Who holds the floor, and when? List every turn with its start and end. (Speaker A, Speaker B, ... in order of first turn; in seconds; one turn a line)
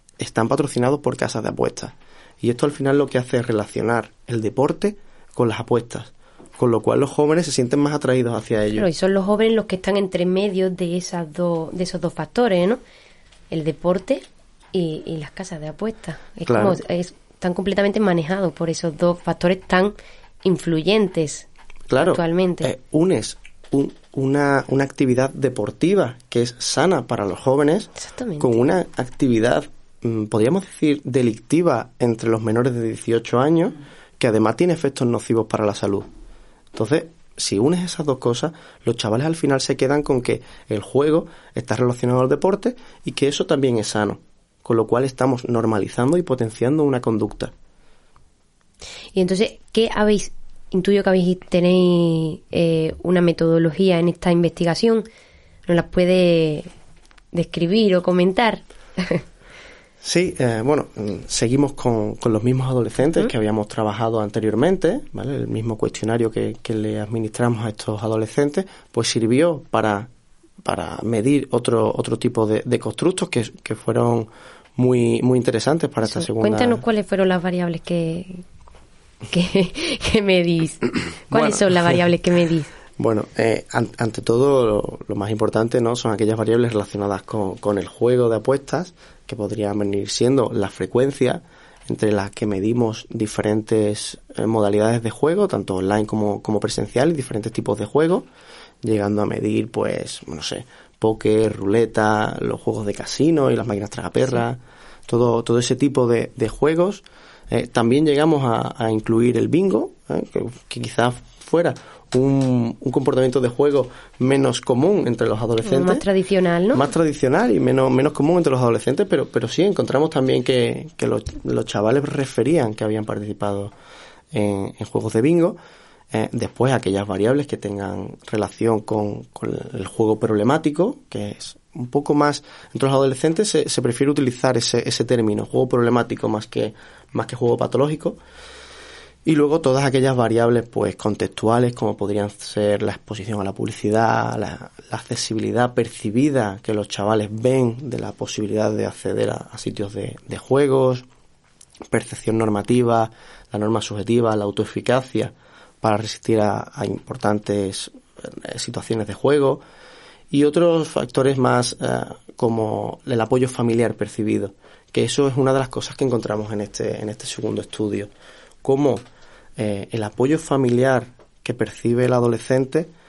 Speaker A: 0.2-8.9
Speaker B: 8.8-12.8
Speaker B: 13.5-21.5
Speaker A: 16.5-16.8
Speaker A: 21.9-36.1
Speaker B: 22.0-22.7
Speaker B: 28.0-28.6
Speaker A: 36.7-47.5
Speaker B: 49.1-55.1
Speaker B: 55.7-56.7
Speaker B: 57.3-59.2
Speaker A: 60.0-70.1
Speaker A: 70.6-76.8
Speaker B: 76.0-78.4
Speaker B: 79.3-82.7
Speaker A: 81.3-82.1
Speaker A: 83.0-98.3
Speaker A: 98.8-116.1
Speaker B: 115.6-116.9
Speaker A: 116.7-123.7
Speaker A: 124.3-125.6
Speaker A: 126.1-138.2
Speaker A: 139.2-151.1
Speaker A: 151.9-159.6
Speaker A: 160.3-168.1
Speaker A: 168.6-169.0
Speaker A: 169.6-172.9